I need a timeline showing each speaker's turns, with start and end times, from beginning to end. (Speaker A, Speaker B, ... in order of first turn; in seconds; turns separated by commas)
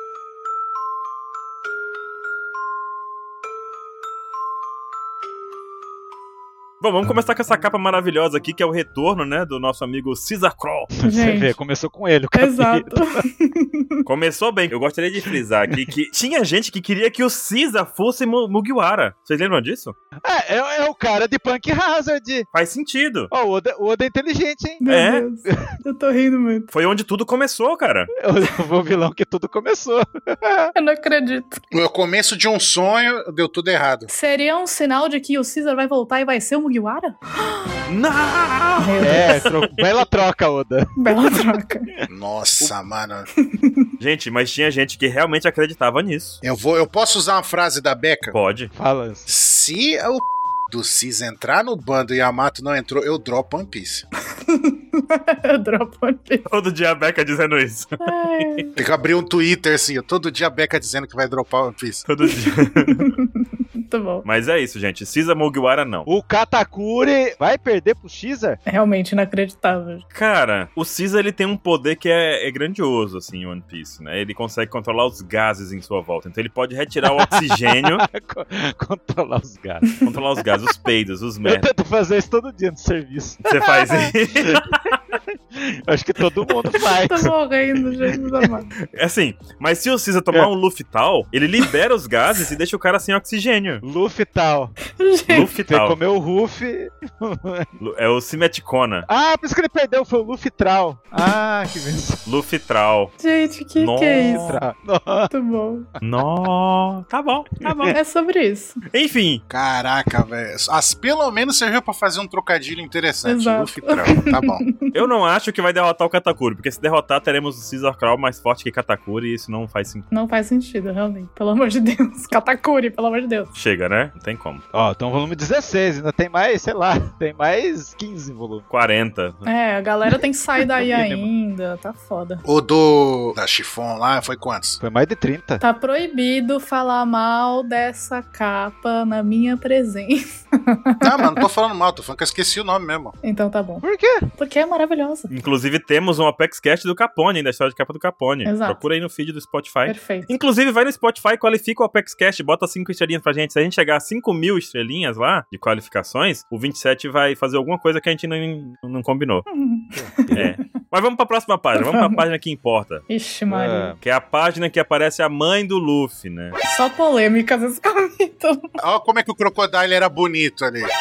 Speaker A: 6.8-10.9, Speaker B: 11.0-13.2, Speaker C: 11.1-11.6, Speaker C: 12.3-14.0, Speaker A: 14.1-19.9, Speaker B: 20.2-22.5, Speaker A: 22.5-23.3, Speaker B: 23.3-24.8, Speaker C: 24.8-26.7, Speaker A: 24.9-25.2, Speaker B: 25.5-25.7, Speaker A: 26.7-28.1, Speaker B: 28.2-30.7, Speaker C: 30.8-31.6, Speaker D: 31.7-34.1, Speaker C: 34.1-37.7, Speaker A: 37.9-39.9, Speaker C: 38.8-39.5, Speaker B: 39.0-42.0, Speaker C: 41.0-41.9, Speaker D: 42.1-43.3, Speaker C: 43.4-43.9, Speaker A: 44.0-46.4, Speaker D: 46.4-48.4, Speaker A: 48.3-48.7, Speaker B: 48.7-49.3, Speaker D: 49.3-54.1, Speaker C: 54.3-56.5, Speaker A: 56.5-58.6, Speaker C: 58.0-58.7, Speaker D: 58.8-62.0, Speaker A: 62.1-63.1, Speaker C: 62.6-64.3, Speaker A: 64.2-66.1, Speaker B: 66.1-68.6, Speaker C: 68.7-70.0, Speaker A: 70.1-78.0, Speaker B: 77.0-79.9, Speaker A: 80.0-81.7, Speaker B: 81.4-84.7, Speaker A: 83.5-85.2, Speaker B: 85.3-87.3, Speaker C: 86.9-88.7, Speaker B: 88.2-88.5, Speaker A: 88.9-93.8, Speaker B: 93.8-94.8, Speaker C: 95.0-95.5, Speaker A: 95.3-96.0, Speaker B: 95.7-97.7, Speaker A: 97.8-99.1, Speaker B: 99.1-102.2, Speaker A: 102.3-103.1, Speaker C: 103.2-104.6, Speaker A: 103.8-104.6, Speaker B: 104.2-105.3, Speaker C: 105.3-105.9, Speaker A: 106.0-108.0, Speaker B: 107.7-108.0, Speaker C: 107.9-108.8, Speaker A: 108.9-109.4, Speaker D: 109.5-114.6, Speaker C: 113.2-114.9, Speaker A: 114.9-120.0, Speaker C: 120.1-123.5, Speaker A: 123.5-124.6, Speaker B: 124.7-128.7, Speaker A: 128.7-129.5, Speaker C: 129.5-132.4, Speaker B: 130.7-131.3, Speaker D: 132.4-134.8, Speaker B: 134.8-135.6, Speaker C: 135.6-141.4, Speaker D: 141.0-143.1, Speaker C: 143.2-143.8, Speaker B: 143.8-144.3, Speaker C: 144.4-145.3, Speaker A: 145.3-159.4, Speaker C: 148.4-148.8, Speaker C: 149.9-150.3, Speaker C: 159.5-160.5, Speaker B: 159.9-160.5, Speaker A: 160.3-163.0, Speaker C: 161.8-162.2, Speaker C: 163.1-163.9, Speaker B: 163.5-164.0, Speaker A: 164.0-166.6, Speaker C: 166.7-168.6, Speaker D: 168.8-170.9